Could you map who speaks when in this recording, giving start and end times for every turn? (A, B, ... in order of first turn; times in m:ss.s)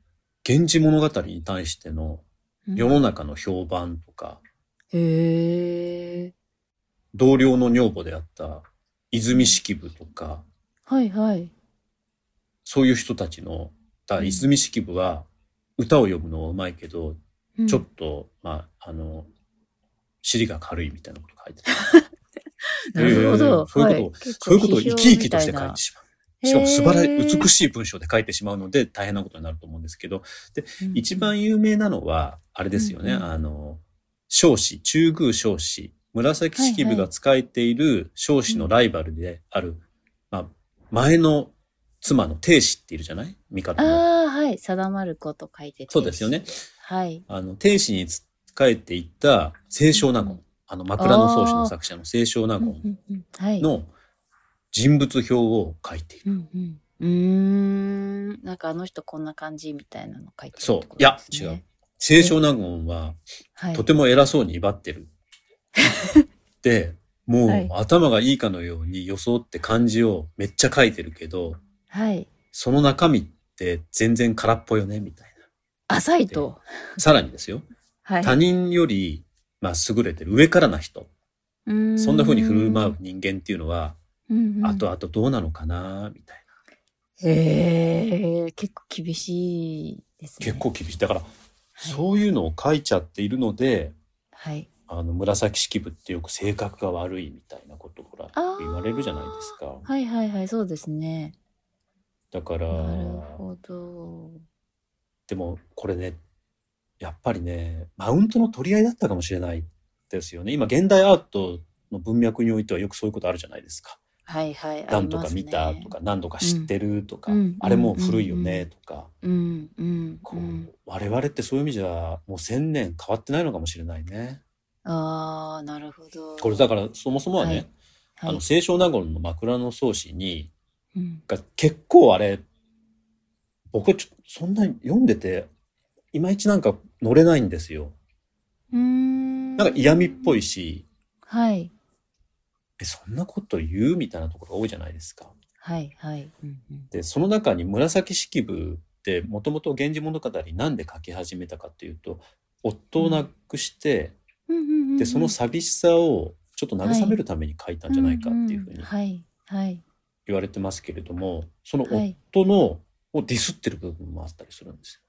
0:00.4-0:02.2 A
0:02.7-0:03.0 B
0:02.8-0:04.4 A
0:04.9-0:06.3 B
0:07.1-0:10.4 A
0:10.8-0:11.5 B
0:12.6-0:15.3 A
0:14.2-0:14.5 B
0:15.8-0:19.3 A
0:17.6-0:17.8 B
0:20.2-0:21.7 A
0:21.8-0:22.0 B
0:22.9-0:25.8 B
0:23.0-0:44.0 A
0:26.4-0:27.5 B
0:30.8-0:31.3 B
0:32.7-0:33.3 B
0:36.5-0:37.1 B
0:43.8-0:47.2 B
0:45.9-0:46.6 A
0:47.3-0:52.8 A
0:51.0-0:51.8 B
0:52.6-0:53.7 B
0:53.6-0:53.9 A
0:54.7-0:56.3 A
0:56.2-1:02.4 B
1:00.6-1:03.2 A
1:03.6-1:03.8 B
1:03.7-1:05.1 A
1:05.8-1:06.1 B
1:06.6-1:11.6 A
1:07.4-1:07.7 B
1:11.9-1:12.3 B
1:12.5-1:15.4 A
1:15.9-1:17.0 B
1:16.3-1:17.6 A
1:18.0-1:18.4 B
1:18.2-1:21.1 A
1:21.6-1:23.0 B
1:22.0-1:24.0 A
1:24.3-1:24.8 B
1:24.6-1:26.4 A
1:27.2-1:30.7 B
1:30.4-1:33.9 A
1:31.8-1:32.0 B
1:34.3-1:34.7 B
1:34.9-1:39.9 A
1:38.3-1:41.3 B
1:42.3-1:43.4 A
1:42.7-1:44.4 B
1:45.3-1:46.2 A
1:47.0-1:54.0 A
1:54.2-1:56.7 B
1:54.9-1:59.1 A
1:57.3-1:58.7 B
1:59.2-2:00.7 B
2:00.3-2:04.4 A
2:04.8-2:06.7 B
2:06.4-2:07.7 A
2:07.4-2:07.6 B
2:08.2-2:08.4 B
2:08.2-2:10.5 A
2:10.9-2:11.2 B
2:11.3-2:12.4 A
2:13.7-2:15.5 A
2:16.1-2:18.0 A
2:18.7-2:20.4 B
2:19.6-2:20.8 A
2:21.3-2:21.7 B
2:22.8-2:25.3 A
2:25.6-2:26.9 B
2:26.9-2:34.1 A
2:33.0-2:33.3 B
2:34.5-2:35.3 B
2:35.0-2:38.9 A
2:36.8-2:37.2 B
2:37.9-2:39.8 B
2:40.2-2:45.0 A
2:41.9-2:42.2 B